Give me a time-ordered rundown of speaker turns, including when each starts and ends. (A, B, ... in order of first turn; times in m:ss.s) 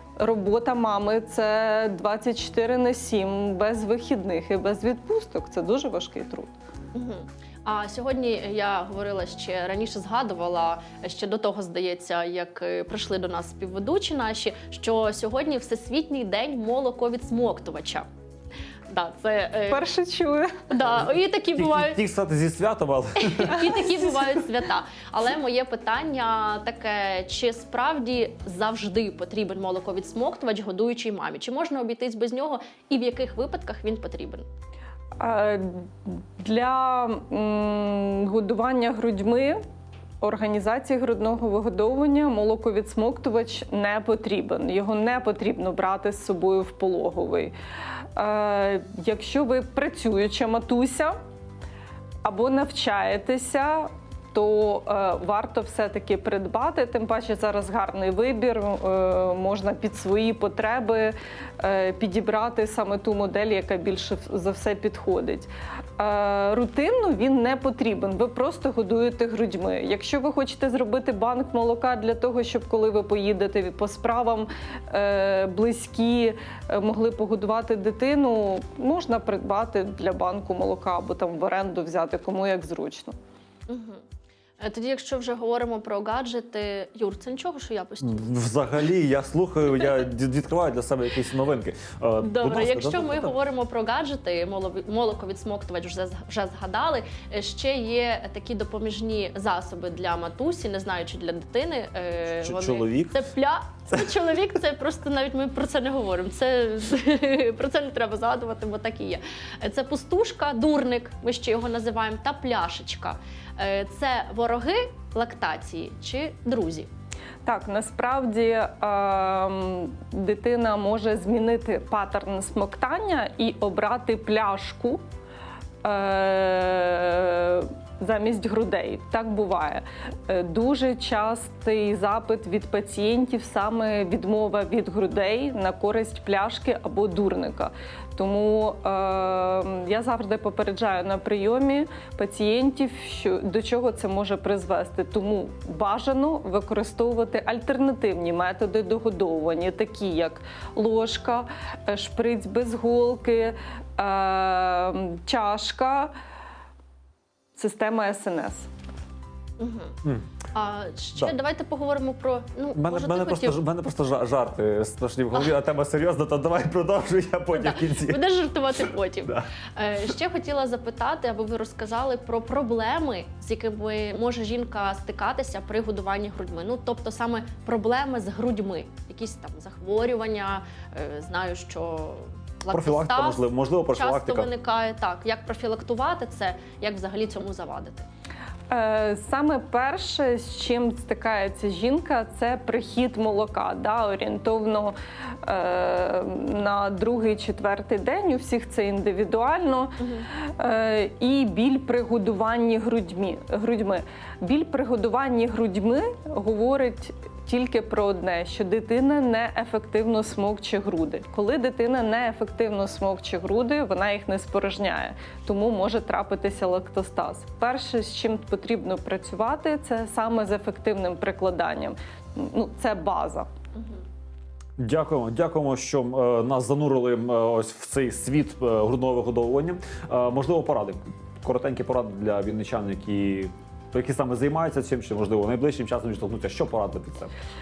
0:00.2-0:06.5 A
0:06.9-0:18.1 B
0:18.9-0:19.8 B
0:19.7-0:20.6 A
0:20.7-0:22.0 B
0:21.0-0:23.9 C
0:23.2-0:34.4 B
0:35.2-0:39.6 A
0:40.2-0:47.5 A
0:48.2-0:51.2 A
0:52.2-1:23.2 A
1:23.7-1:24.0 B
1:24.6-1:28.4 B
1:28.0-1:33.3 C
1:32.2-1:56.9 B
1:42.3-1:43.2 C
1:57.4-2:05.0 A
2:05.8-2:36.1 A
2:37.5-2:38.7 A
2:39.6-2:40.0 B
2:40.5-2:43.6 B
2:42.7-2:48.2 C
2:47.5-3:08.1 B
2:48.7-2:49.5 C
3:02.7-3:04.5 C
3:08.7-3:43.5 A
3:20.0-3:20.3 B
3:43.7-3:44.0 B
3:44.8-3:57.3 C